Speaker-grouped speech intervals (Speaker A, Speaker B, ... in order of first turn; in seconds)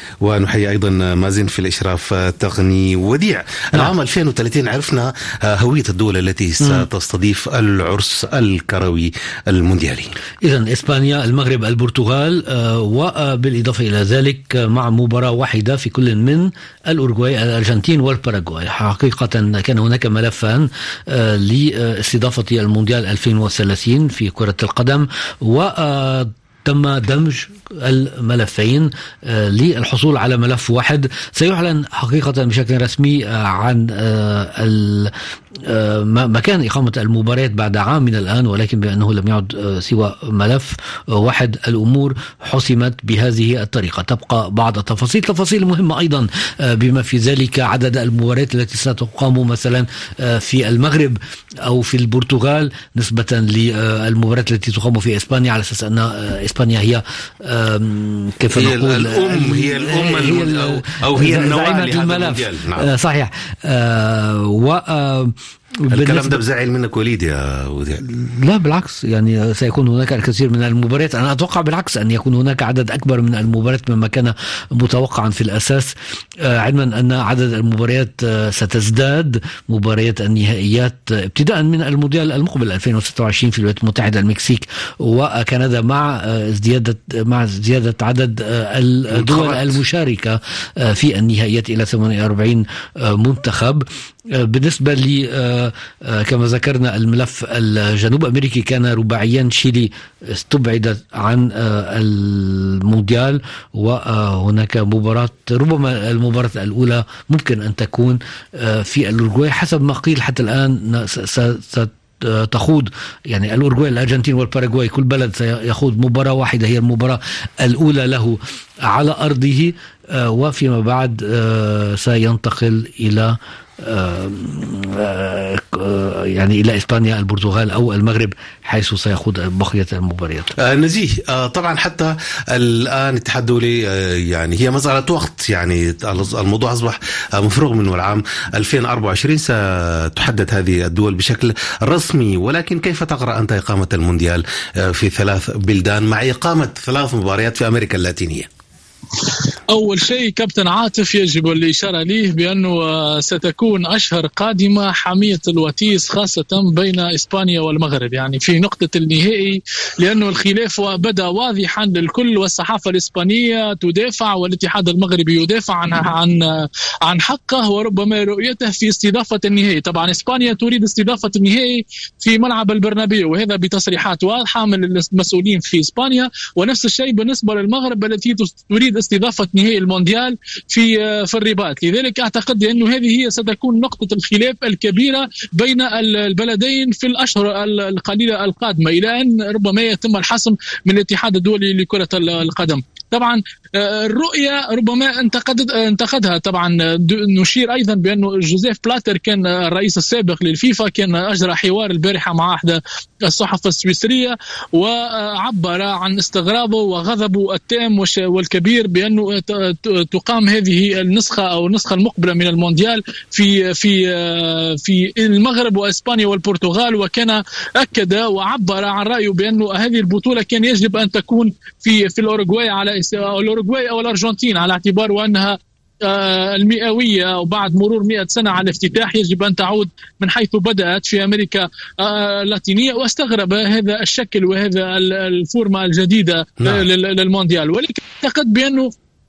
Speaker A: 0.2-10.1, 58.5-62.9, 65.9-68.0, 89.1-89.8, 130.6-148.5, 236.6-236.9
Speaker B: 10.4-35.1, 35.7-66.4, 68.0-118.4, 118.9-130.5
Speaker C: 149.7-238.9